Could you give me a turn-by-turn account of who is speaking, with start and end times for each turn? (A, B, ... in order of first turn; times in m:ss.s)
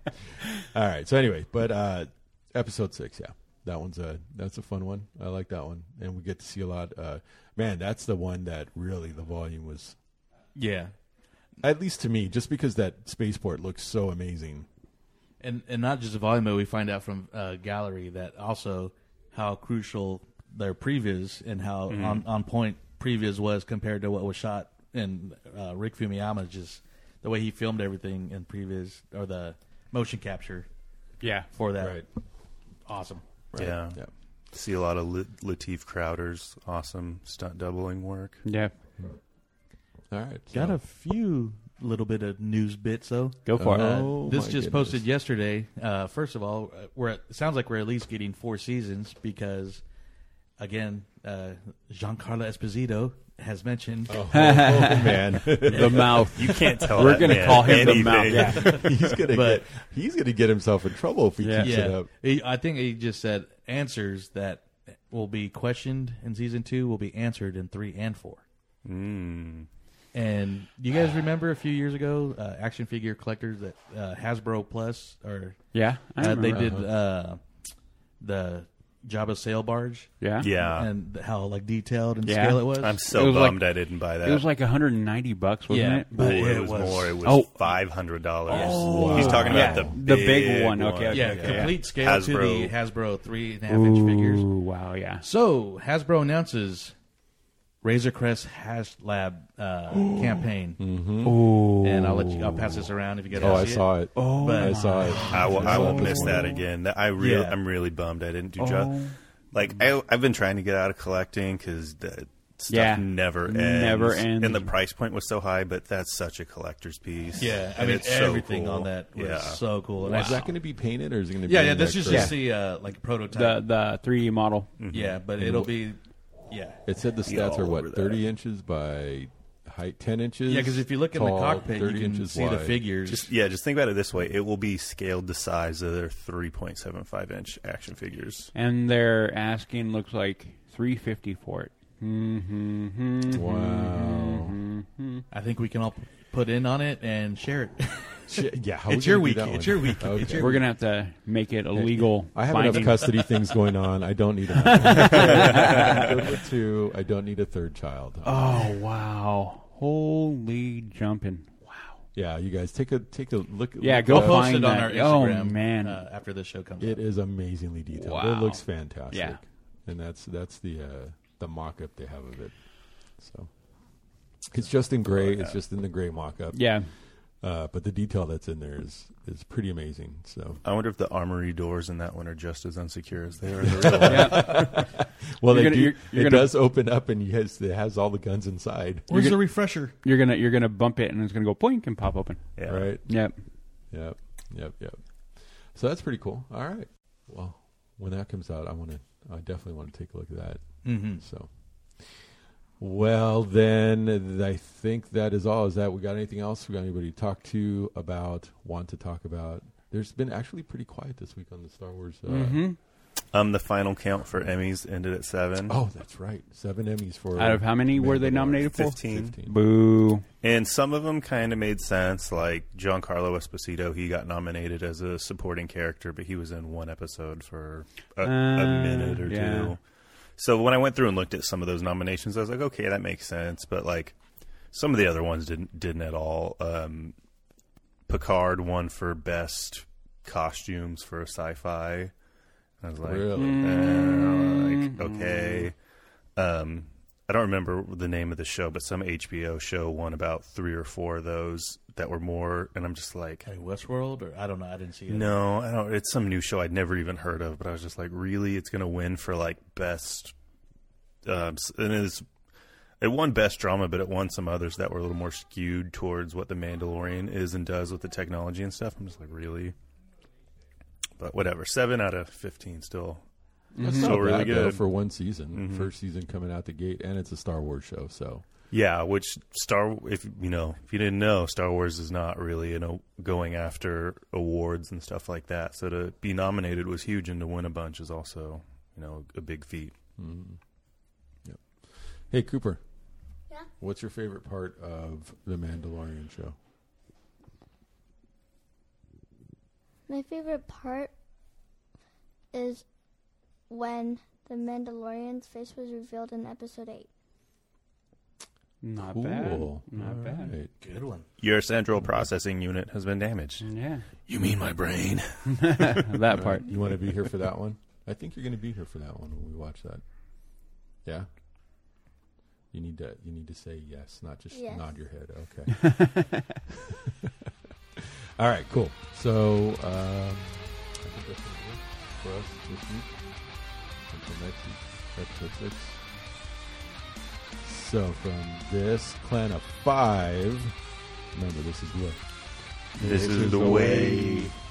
0:00.6-0:10.0 A
0:10.5-0:10.9 B
0:11.6-0:14.7 A
0:15.4-0:30.7 B
0:21.9-0:22.2 C
0:31.2-0:31.5 D
0:31.5-0:32.0 B
0:31.8-0:32.0 A
0:32.9-0:33.2 B
0:33.5-0:34.1 A
0:33.6-0:38.4 C
0:38.4-0:38.7 D
0:40.1-0:40.8 A
0:40.5-0:49.8 B
0:43.4-0:44.1 D
0:43.6-0:45.0 A
0:50.6-0:54.3 B
0:54.1-1:02.1 A
0:54.3-0:58.7 D
0:55.5-0:59.2 C
0:55.7-0:56.0 B
0:58.5-0:59.6 B
1:01.4-1:01.8 D
1:01.6-1:08.4 B
1:08.8-1:09.7 C
1:10.1-1:15.6 B
1:15.7-1:16.7 D
1:16.2-1:17.4 B
1:16.5-1:16.9 A
1:18.2-1:23.0 B
1:20.2-1:20.5 D
1:20.4-1:20.9 C
1:22.2-1:26.2 D
1:22.8-1:24.4 C
1:25.7-1:27.2 B
1:26.1-1:32.7 C
1:27.2-1:27.7 D
1:28.5-1:31.8 D
1:28.5-1:29.7 B
1:28.8-1:30.0 A
1:31.1-1:34.5 B
1:33.7-1:35.2 D
1:35.2-1:36.9 B
1:37.8-1:40.8 B
1:40.0-1:40.4 D
1:40.8-1:41.5 A
1:41.2-1:42.6 D
1:41.8-1:46.4 B
1:43.3-1:43.6 C
1:43.3-1:46.5 A
1:44.1-1:46.6 D
1:45.3-1:59.6 C
1:47.2-1:47.6 B
1:48.6-1:49.2 D
1:52.7-1:54.7 D
1:57.4-2:00.4 B
2:00.0-2:02.4 A
2:00.0-2:00.4 D
2:01.4-2:03.6 B
2:02.1-2:02.4 D
2:03.3-2:04.7 D
2:04.8-2:05.2 C
2:04.9-2:06.8 B
2:05.4-2:05.7 A
2:06.8-2:12.8 A
2:07.3-2:08.1 D
2:10.5-2:13.3 B
2:13.0-2:18.5 C
2:18.5-2:25.2 D
2:23.3-2:24.6 A
2:25.3-2:30.7 B
2:28.3-2:30.6 A
2:30.3-2:33.5 D
2:31.7-2:38.7 A
2:34.5-2:36.1 D
2:38.2-2:42.0 D
2:42.1-2:44.6 A
2:43.8-2:46.0 D
2:44.1-2:47.0 B
2:46.8-2:52.5 A
2:47.9-2:49.4 D
2:53.1-2:53.5 A
2:54.5-2:56.8 A
2:55.2-2:55.5 D
2:56.5-2:56.9 D
2:57.4-3:00.6 A
3:00.6-3:04.6 C
3:03.6-3:09.1 A
3:04.0-3:04.9 D
3:05.5-3:06.5 D
3:09.1-3:09.9 B
3:09.1-3:12.5 D
3:12.6-3:12.9 C
3:12.6-3:13.2 A
3:13.0-3:13.4 D
3:13.9-3:22.3 A
3:20.8-3:21.2 B
3:22.8-3:32.6 A
3:32.3-3:32.8 D
3:33.3-3:35.8 C
3:35.7-3:39.6 A
3:37.4-3:40.2 D
3:38.6-3:39.3 C
3:40.4-3:49.8 C
3:48.2-3:49.8 D
3:50.4-3:54.2 C
3:54.7-3:57.1 C
3:58.1-4:02.1 C
4:02.8-4:05.8 C
4:03.0-4:03.6 A
4:03.3-4:05.7 D
4:06.3-4:13.5 C
4:13.4-4:15.4 B
4:15.1-4:20.3 C
4:21.2-4:22.2 C
4:23.0-4:29.7 C
4:31.2-4:33.2 C
4:33.7-4:34.2 D
4:33.8-4:38.4 A
4:33.9-4:35.0 C
4:35.5-4:35.9 C
4:38.7-4:49.9 C
4:50.2-4:50.6 A
4:51.4-4:52.8 A
4:53.8-4:56.6 A
5:00.1-5:01.1 E
5:02.5-5:02.8 E
5:03.7-5:07.1 E
5:08.8-5:10.6 D
5:09.0-5:10.7 A
5:10.8-5:11.2 B
5:11.4-5:13.7 C
5:13.6-5:14.0 D
5:14.3-5:15.5 B
5:15.5-5:16.7 D
5:16.3-5:20.0 A
5:22.7-5:36.0 A
5:24.5-5:24.8 E
5:37.6-5:40.8 A
5:41.3-5:42.2 A
5:43.0-5:44.5 A
5:43.0-5:44.5 C
5:43.0-5:44.5 D